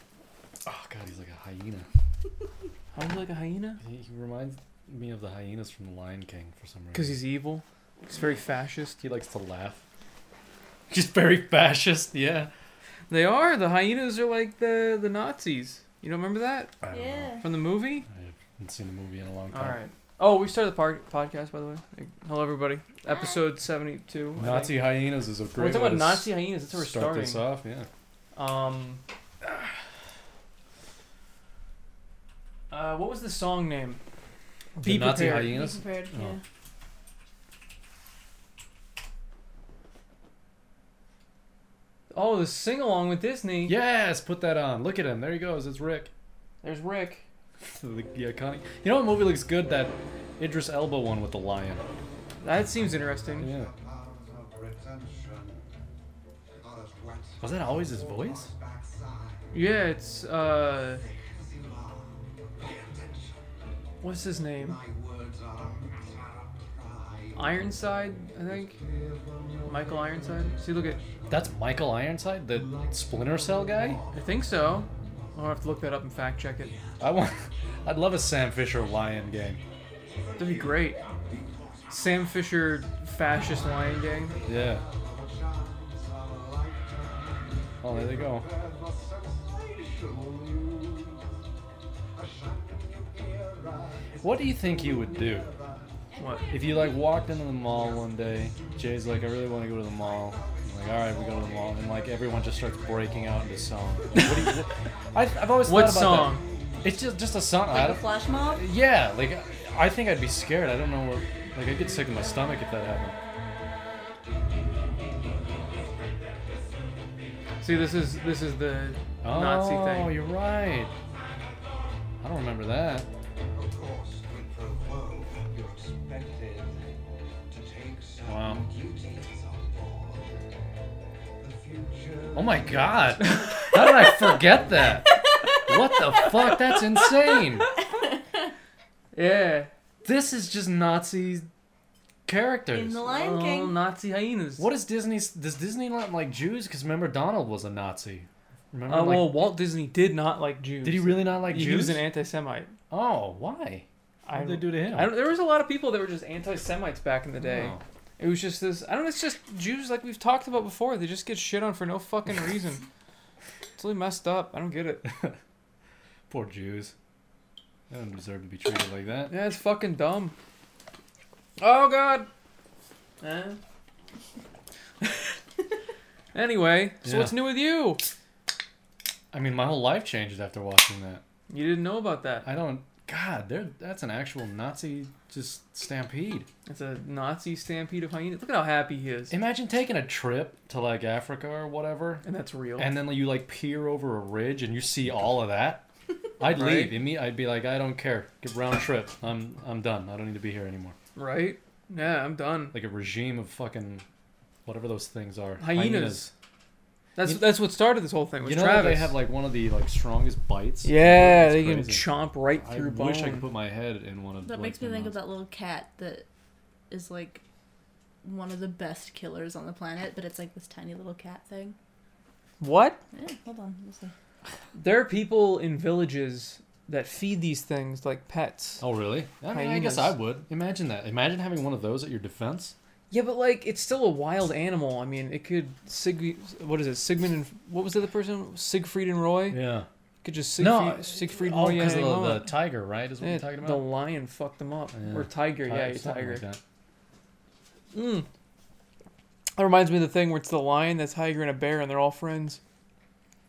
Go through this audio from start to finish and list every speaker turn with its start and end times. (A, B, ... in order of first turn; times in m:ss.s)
0:00.6-0:01.9 A
0:02.9-0:03.8 B
0:03.8-0:07.2 A
0:06.9-0:09.0 B
0:09.0-0:09.8 A
0:10.9-0:12.5 A
0:13.1-0:16.8 B
0:16.8-0:17.4 A
0:16.9-0:17.4 C
0:17.4-0:18.0 B
0:18.1-0:19.8 A
0:19.5-0:24.8 B
0:24.4-0:27.9 A
0:25.5-0:27.5 B
0:28.3-0:29.0 B
0:32.7-0:34.0 B
0:34.8-0:36.4 A
0:34.8-0:35.5 B
0:35.3-0:36.4 C
0:42.1-0:43.8 B
0:43.6-0:46.1 A
0:46.6-0:47.2 B
0:47.6-0:51.8 A
0:52.4-0:53.5 B
0:53.4-0:53.7 A
0:57.4-0:58.5 A
0:59.5-1:01.0 B
1:04.0-1:04.8 B
1:07.3-1:08.8 B
1:09.6-1:11.0 B
1:11.3-1:14.0 A
1:14.1-1:16.8 B
1:17.0-1:19.6 A
1:20.4-1:21.0 B
1:21.9-1:24.4 B
1:24.4-1:24.8 A
1:27.8-1:28.5 A
1:34.2-1:35.5 A
1:36.2-1:36.4 B
1:36.5-1:53.2 A
1:44.1-1:44.5 B
1:45.6-1:46.4 B
1:47.7-1:48.6 C
1:57.6-2:00.2 B
1:59.2-2:00.9 A
2:02.2-2:03.1 A
2:08.2-2:08.7 A
2:12.3-2:17.7 A
2:13.3-2:13.7 B
2:15.3-2:16.2 C
2:19.1-2:19.7 B
2:20.0-2:21.5 A
2:22.2-2:23.0 A
2:22.7-2:23.8 C
2:23.0-2:24.7 B
2:24.6-2:29.4 A
2:28.9-2:32.7 B
2:30.8-2:32.0 A
2:32.9-2:35.1 A
2:34.2-2:42.8 B
2:37.4-2:37.8 A
2:43.8-2:45.0 B
2:45.0-2:45.4 A
2:46.3-2:46.9 A
2:47.9-2:49.3 A
2:49.3-2:50.3 B
2:51.6-2:52.3 B
2:53.2-2:53.6 B
2:55.0-2:55.3 B
2:56.3-2:58.1 B
2:57.0-2:57.3 A
2:59.3-3:01.2 A
3:01.5-3:02.5 B
3:02.4-3:06.5 A
3:06.6-3:09.3 B
3:09.3-3:12.2 A
3:12.2-3:12.9 B
3:12.8-3:15.8 A
3:16.4-3:21.0 A
3:16.4-3:17.0 B
3:21.2-3:22.8 B
3:22.7-3:24.0 A
3:24.6-3:26.3 A
3:25.6-3:26.3 B
3:27.2-3:29.2 B
3:28.4-3:35.2 A
3:30.8-3:33.5 B
3:34.4-3:36.2 C
3:36.9-3:37.4 C
3:38.2-3:41.8 C
3:42.6-3:43.0 B
3:43.1-3:44.1 C
3:44.7-3:48.8 B
3:48.8-3:52.7 A
3:49.5-3:50.2 B
3:53.1-3:59.6 B
3:59.5-3:59.9 A
4:00.2-4:02.5 B
4:00.6-4:03.8 A
4:03.2-4:06.4 B
4:04.9-4:06.6 A
4:07.9-4:08.3 B
4:09.6-4:12.6 B